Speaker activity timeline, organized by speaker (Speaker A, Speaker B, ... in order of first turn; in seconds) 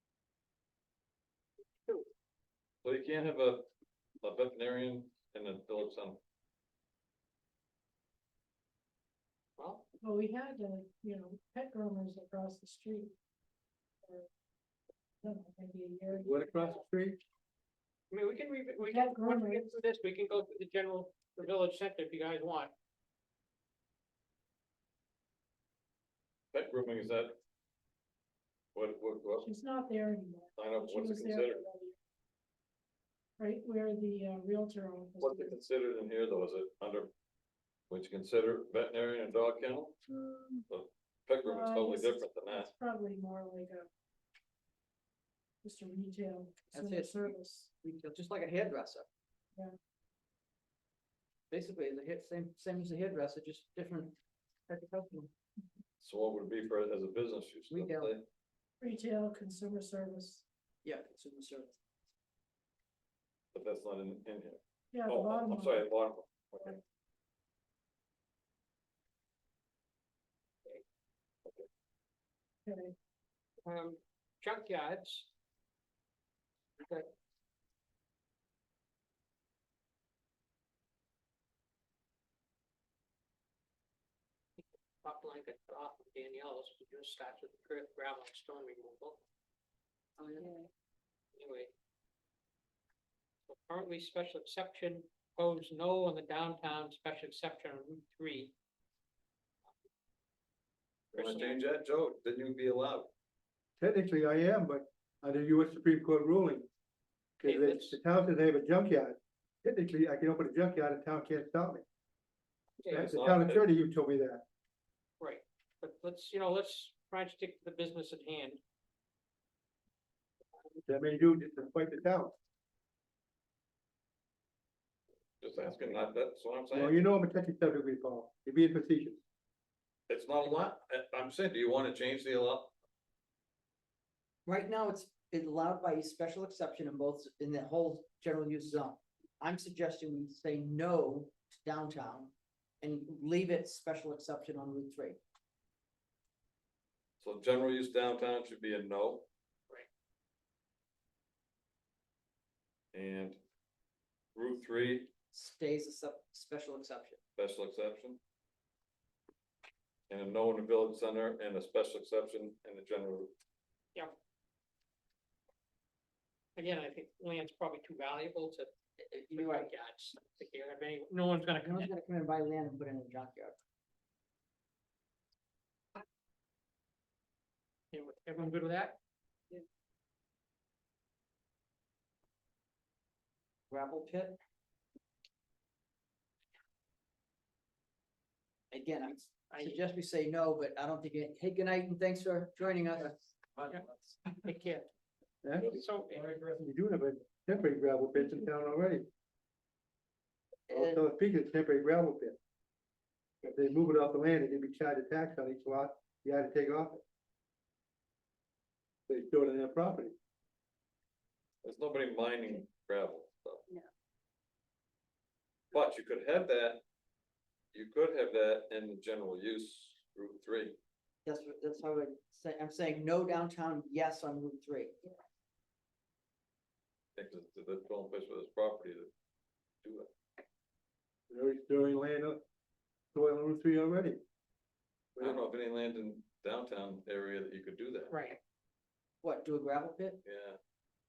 Speaker A: 2.8-3.7, 4.2-6.2, 26.5-27.4, 28.7-29.5, 30.6-31.6, 35.2-37.1, 37.9-40.0, 40.7-42.7, 56.0-58.2, 63.5-66.8, 101.1-103.1, 112.8-113.7, 125.4-127.0, 130.1-132.7, 147.2-149.3, 152.9-153.4, 154.3-155.1, 157.4-158.2, 160.1-163.3, 211.6-213.6, 215.7-216.8, 217.7-220.8, 227.2-229.1, 229.8-230.1, 235.2-238.1, 240.2-240.6
Speaker B: 9.6-9.8, 18.1-22.7, 73.6-75.3, 76.8-77.1, 85.0-89.2, 91.3-91.7, 93.5-98.5, 101.1-101.6, 107.4-108.0, 112.8-113.1, 115.2-118.6, 166.5-168.7, 169.3-171.9, 177.9-179.0, 189.5-189.8, 194.3-194.9, 195.7-196.6, 238.1-238.4
Speaker C: 10.0-13.1, 15.2-16.7, 18.9-19.8, 29.4-31.9, 33.4-35.6, 40.1-40.6, 41.4-43.9, 45.6-47.7, 58.8-60.4, 64.9-65.9, 72.7-72.9
Speaker D: 16.2-17.2, 103.8-106.7, 107.4-111.8, 112.9-114.4, 120.9-122.3, 126.7-129.2, 195.4-195.8, 196.4-199.1, 200.7-202.4, 203.4-207.0, 209.1-210.1, 231.3-232.4, 233.1-234.2, 235.2-235.4
Speaker E: 46.7-49.1, 51.5-54.1, 54.7-55.3, 57.7-58.1, 60.8-61.8, 90.2-90.5, 134.4-145.2, 155.3-157.2, 169.0-169.7, 171.6-173.6, 183.7-184.4, 188.7-193.2, 200.7-201.0, 221.2-225.0, 239.2-240.2